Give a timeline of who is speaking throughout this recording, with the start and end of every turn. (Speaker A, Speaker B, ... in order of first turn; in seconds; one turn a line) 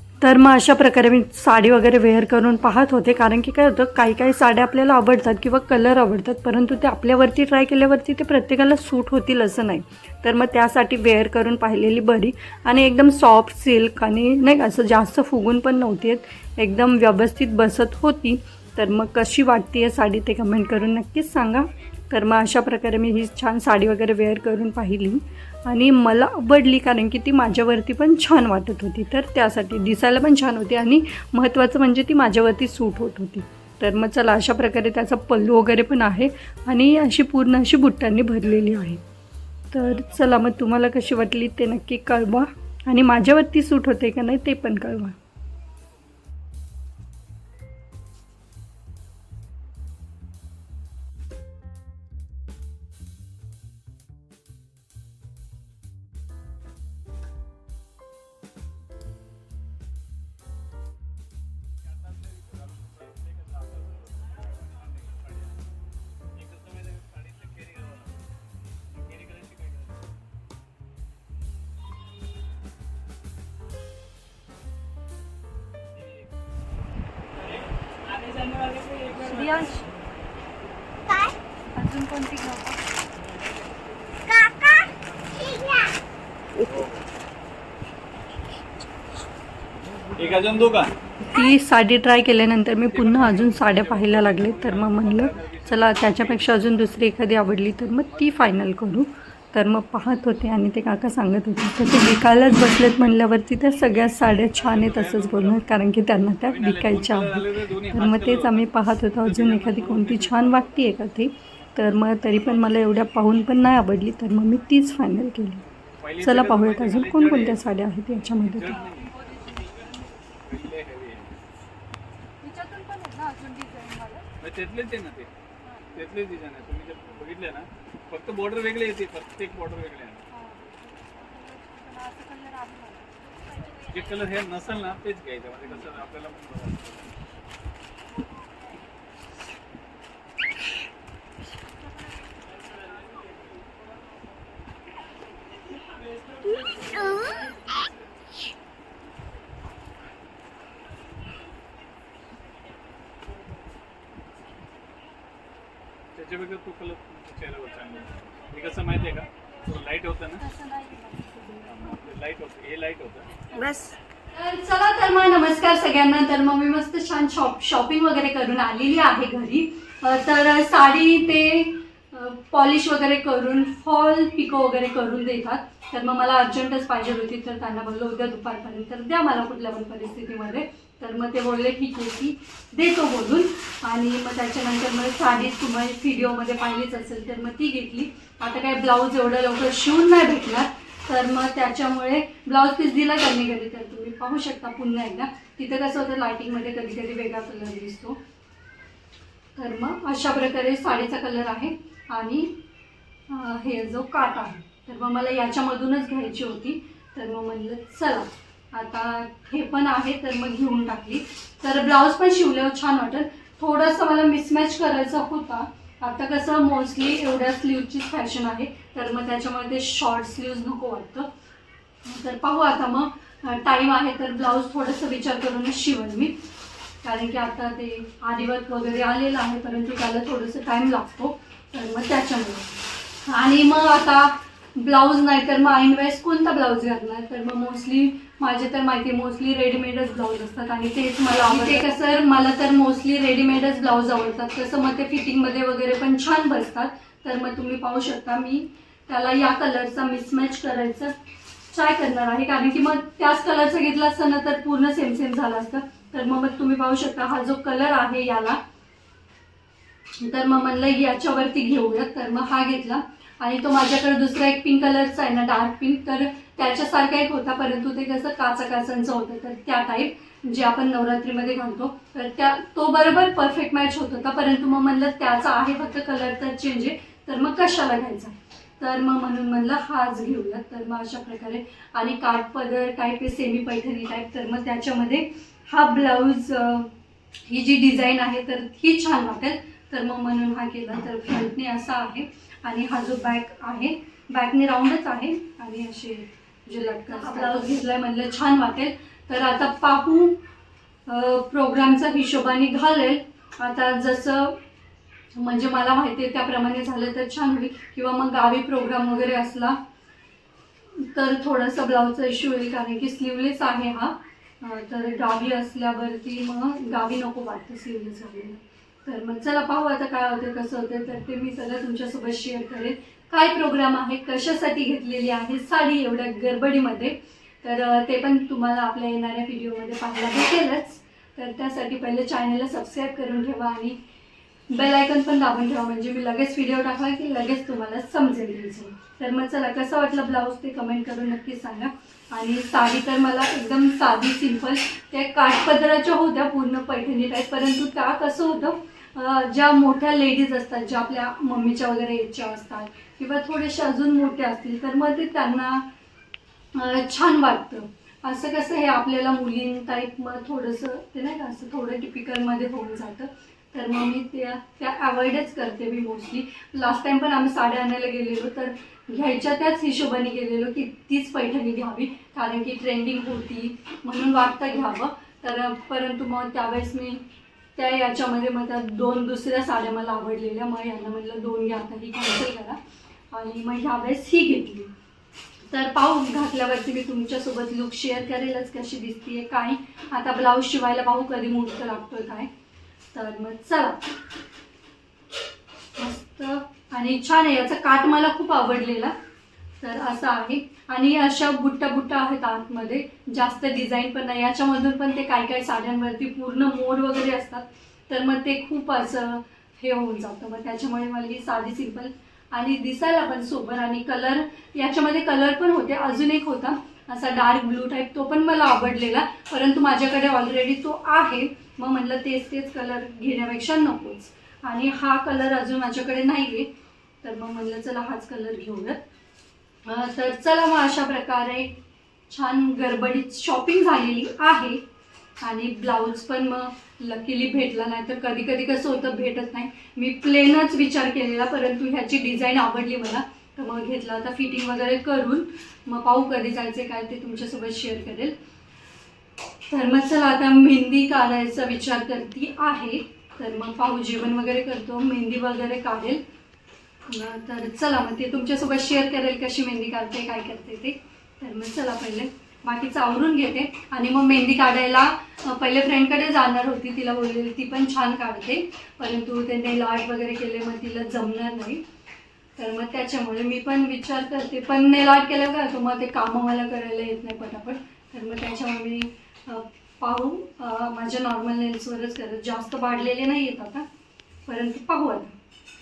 Speaker A: 0.2-39.0
Speaker A: 39.7-45.1
Speaker B: 39.9-40.2
Speaker B: 61.9-65.5
Speaker B: 66.3-68.1
Speaker B: 68.9-69.9
Speaker B: 76.0-76.3
Speaker A: 79.2-79.9
Speaker C: 81.0-81.4
Speaker A: 81.7-82.8
Speaker C: 84.2-85.9
Speaker B: 90.2-90.9
Speaker A: 91.2-115.6
Speaker B: 92.8-97.3
Speaker B: 98.0-98.6
Speaker B: 102.6-105.7
Speaker B: 106.4-110.9
Speaker B: 112.3-113.0
Speaker B: 116.0-117.7
Speaker A: 116.2-119.6
Speaker B: 118.4-119.5
Speaker B: 120.3-121.3
Speaker A: 122.4-124.3
Speaker B: 124.4-125.3
Speaker B: 125.9-130.2
Speaker A: 130.3-133.8
Speaker B: 133.9-137.1
Speaker B: 156.1-160.4
Speaker A: 160.4-162.0
Speaker B: 161.6-163.5
Speaker A: 163.5-198.2
Speaker A: 199.6-202.5
Speaker A: 203.3-221.3
Speaker A: 222.0-226.3
Speaker A: 227.0-251.1
Speaker A: 251.7-258.6
Speaker A: 260.2-286.9
Speaker A: 287.4-300.4
Speaker A: 301.1-304.6
Speaker A: 305.3-309.8
Speaker A: 310.9-334.0
Speaker A: 334.7-355.9
Speaker A: 356.7-377.2
Speaker A: 377.7-382.8
Speaker A: 383.3-384.9
Speaker A: 385.7-392.5
Speaker A: 393.1-394.0
Speaker A: 396.0-399.1
Speaker A: 399.8-426.7
Speaker A: 427.2-429.0
Speaker A: 429.8-431.8
Speaker A: 432.3-434.8
Speaker A: 435.4-448.3
Speaker A: 449.7-456.2
Speaker A: 457.1-471.8
Speaker A: 472.6-483.9
Speaker A: 484.4-485.3